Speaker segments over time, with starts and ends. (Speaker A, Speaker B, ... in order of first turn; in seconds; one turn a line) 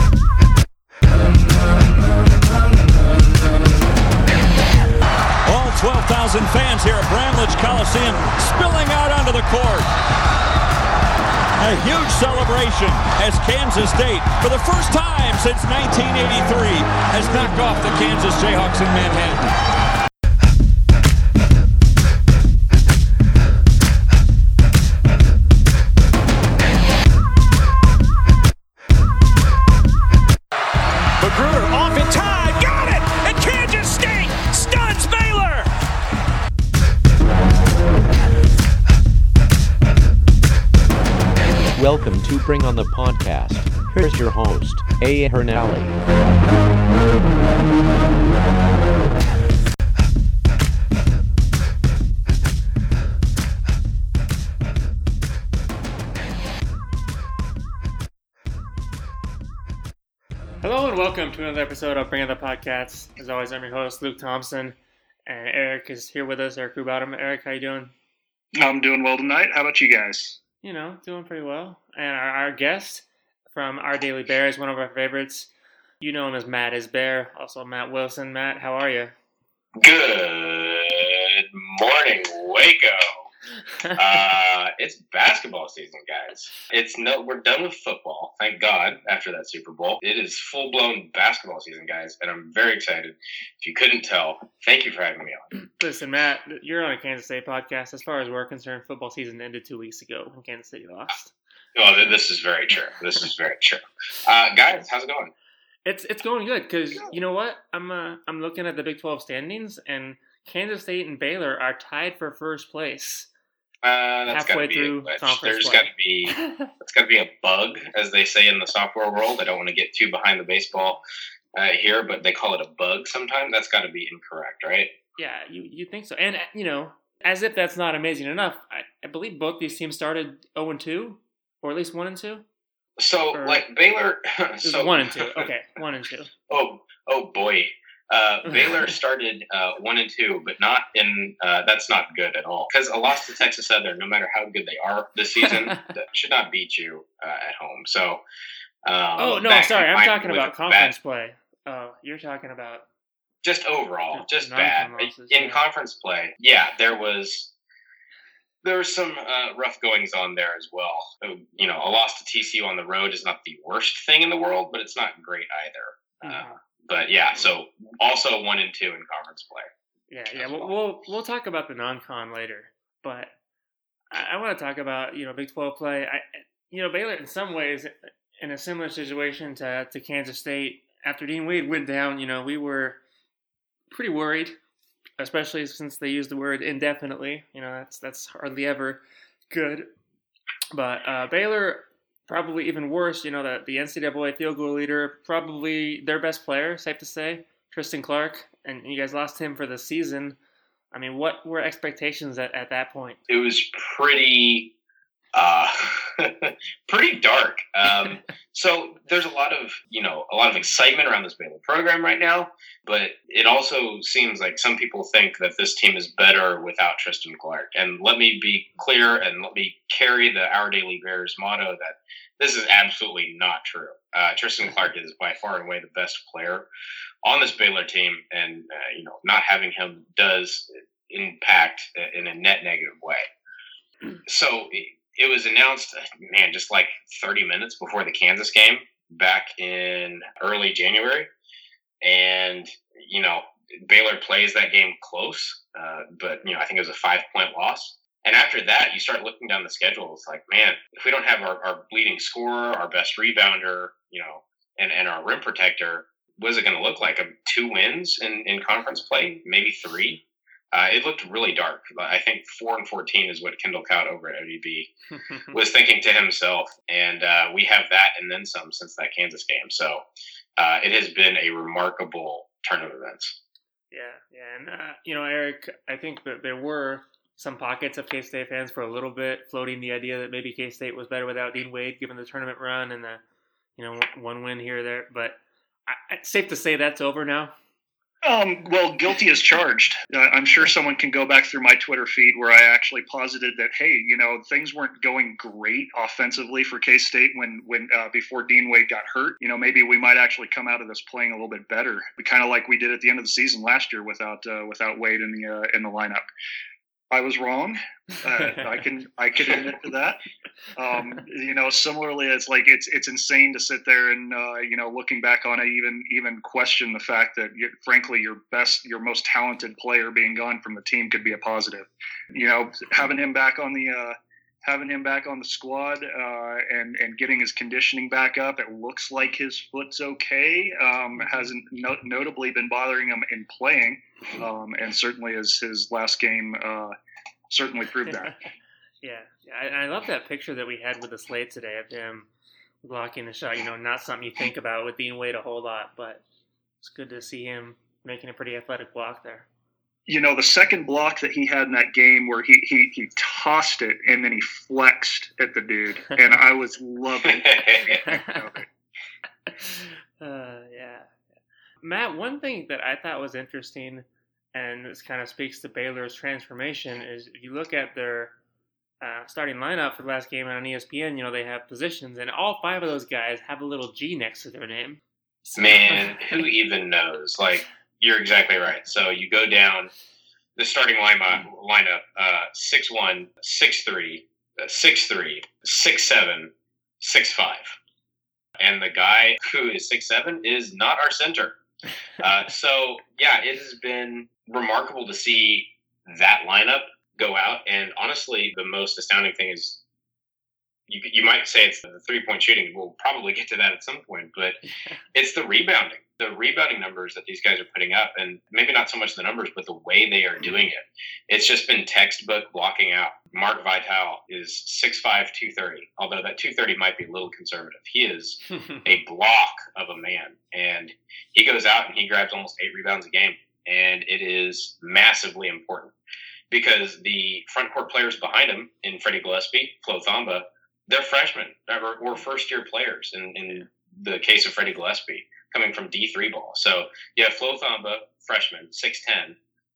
Speaker A: 5.5-9.9
Speaker A: 11.6-19.5
Speaker A: 31.2-35.7
Speaker B: 41.7-46.0
Speaker C: 60.6-67.9
Speaker D: 68.6-70.4
Speaker C: 70.6-75.5
Speaker C: 76.0-79.1
Speaker E: 79.8-83.3
Speaker E: 83.9-95.5
Speaker C: 95.8-101.3
Speaker E: 101.8-105.3
Speaker C: 105.8-113.3
Speaker E: 113.8-121.0
Speaker C: 114.3-116.7
Speaker E: 121.5-124.9
Speaker C: 125.2-132.4
Speaker E: 133.0-135.5
Speaker C: 133.3-133.6
Speaker C: 134.6-136.3
Speaker E: 136.5-148.2
Speaker C: 145.5-145.8
Speaker E: 148.8-150.9
Speaker C: 149.2-152.8
Speaker E: 153.4-157.5
Speaker C: 154.1-155.7
Speaker E: 158.6-169.7
Speaker C: 166.2-166.6
Speaker C: 170.1-173.3
Speaker E: 170.3-170.7
Speaker C: 174.1-183.0
Speaker C: 183.9-184.6
Speaker C: 185.2-189.9
Speaker C: 190.7-200.4
Speaker C: 200.9-203.2
Speaker E: 203.3-204.7
Speaker E: 205.3-226.7
Speaker E: 227.2-233.2
Speaker E: 234.2-241.3
Speaker E: 242.0-264.9
Speaker E: 265.5-270.0
Speaker E: 270.6-273.4
Speaker C: 273.9-283.2
Speaker C: 283.8-287.5
Speaker D: 288.2-306.2
Speaker D: 307.1-310.2
Speaker D: 310.7-336.9
Speaker D: 337.5-338.3
Speaker C: 339.0-342.3
Speaker C: 342.8-346.2
Speaker C: 346.8-349.5
Speaker D: 350.1-358.6
Speaker E: 357.2-358.0
Speaker C: 357.9-358.5
Speaker C: 359.5-361.1
Speaker C: 361.8-368.3
Speaker C: 369.0-376.4
Speaker E: 375.6-379.9
Speaker E: 380.6-387.7
Speaker E: 388.6-391.6
Speaker E: 392.2-399.8
Speaker E: 400.9-404.6
Speaker E: 405.1-425.9
Speaker E: 426.5-439.4